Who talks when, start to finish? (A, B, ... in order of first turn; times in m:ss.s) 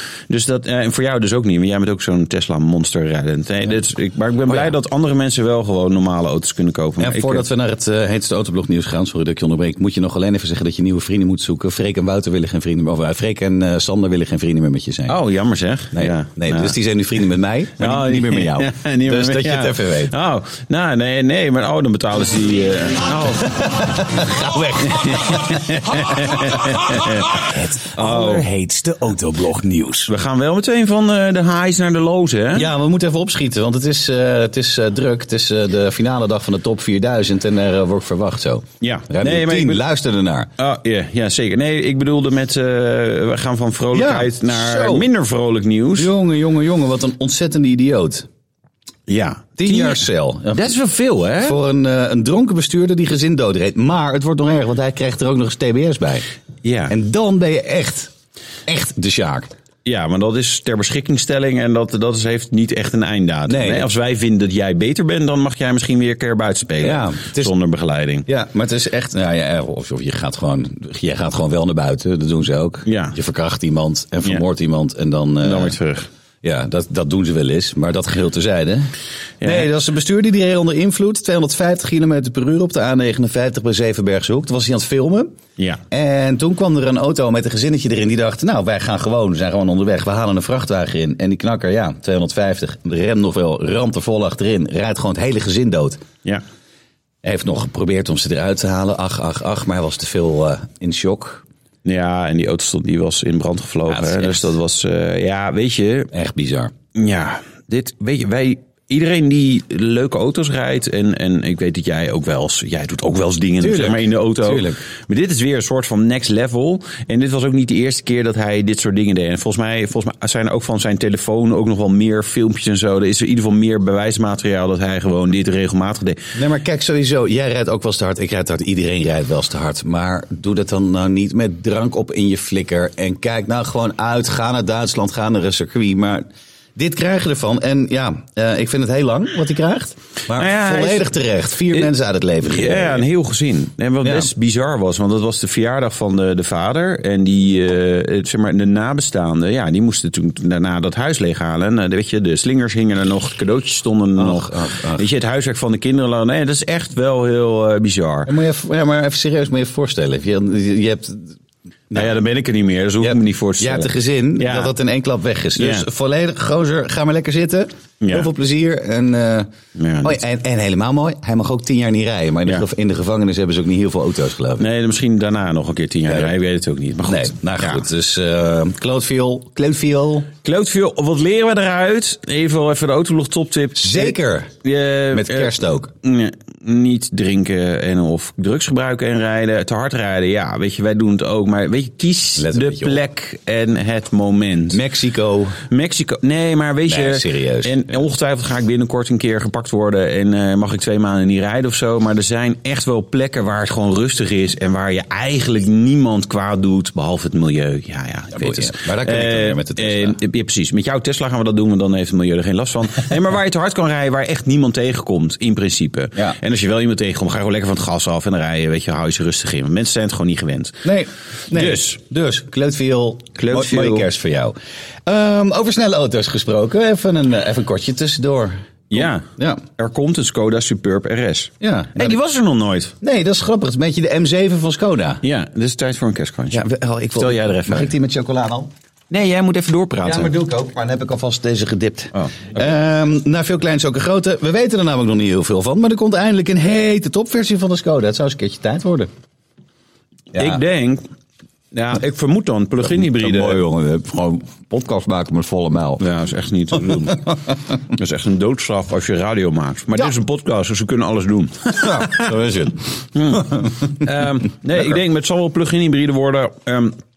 0:00.3-0:07.5 A
0:07.0-0:15.2 B
0:15.1-0:16.8 A
0:15.9-0:20.1 B
0:17.8-0:23.6 A
0:23.4-0:30.1 B
0:24.8-0:27.4 A
0:27.9-0:28.4 A
0:30.1-0:32.7 A
0:32.5-0:40.5 B
0:38.8-0:39.8 A
0:40.6-0:46.1 A
0:43.9-0:45.0 B
0:46.0-0:48.3 B
0:49.1-0:50.0 A
0:49.6-0:50.6 B
0:50.5-0:51.6 A
0:51.4-0:56.2 B
0:56.6-0:56.9 A
0:56.9-0:58.1 B
0:58.7-0:59.5 B
0:59.8-1:08.2 A
1:03.5-1:03.9 B
1:06.8-1:07.5 B
1:08.2-1:15.8 B
1:12.8-1:13.1 A
1:15.4-1:16.1 A
1:16.4-1:25.3 B
1:19.4-1:19.7 A
1:25.9-1:36.0 B
1:37.2-1:41.4 B
1:41.8-1:46.1 A
1:43.9-1:44.5 B
1:46.1-1:46.7 B
1:46.9-2:06.2 A
1:53.6-1:54.8 B
2:06.3-2:23.0 B
2:20.3-2:21.1 A
2:22.4-2:38.3 A
2:24.0-2:24.3 B
2:34.2-2:35.0 B
2:38.2-2:41.4 B
2:41.9-2:44.7 A
2:43.0-2:49.5 B
2:45.6-2:45.8 A
2:48.0-2:48.3 A
2:49.8-2:50.2 A
2:50.0-2:54.7 B
2:54.6-2:57.8 A
2:57.0-3:00.3 B
3:00.4-3:14.8 A
3:03.8-3:04.5 B
3:05.1-3:05.9 B
3:12.4-3:13.0 B
3:14.7-3:15.6 B
3:15.7-3:40.8 A
3:16.9-3:17.9 B
3:28.3-3:30.2 B
3:40.8-3:49.6 B
3:41.5-3:42.0 A
3:43.4-3:44.1 A
3:48.9-3:52.9 A
3:51.6-3:52.2 B
3:53.0-3:55.2 B
3:55.2-3:56.6 A
3:56.5-3:58.7 B
3:57.2-3:57.9 A
3:59.1-4:00.3 A
4:00.0-4:09.1 B
4:10.3-4:10.6 B
4:10.3-4:11.0 A
4:11.7-4:13.6 A
4:12.8-4:16.0 B
4:16.0-4:17.2 A
4:16.8-4:17.3 B
4:17.9-4:22.3 A
4:21.8-4:23.6 B
4:23.1-4:27.0 A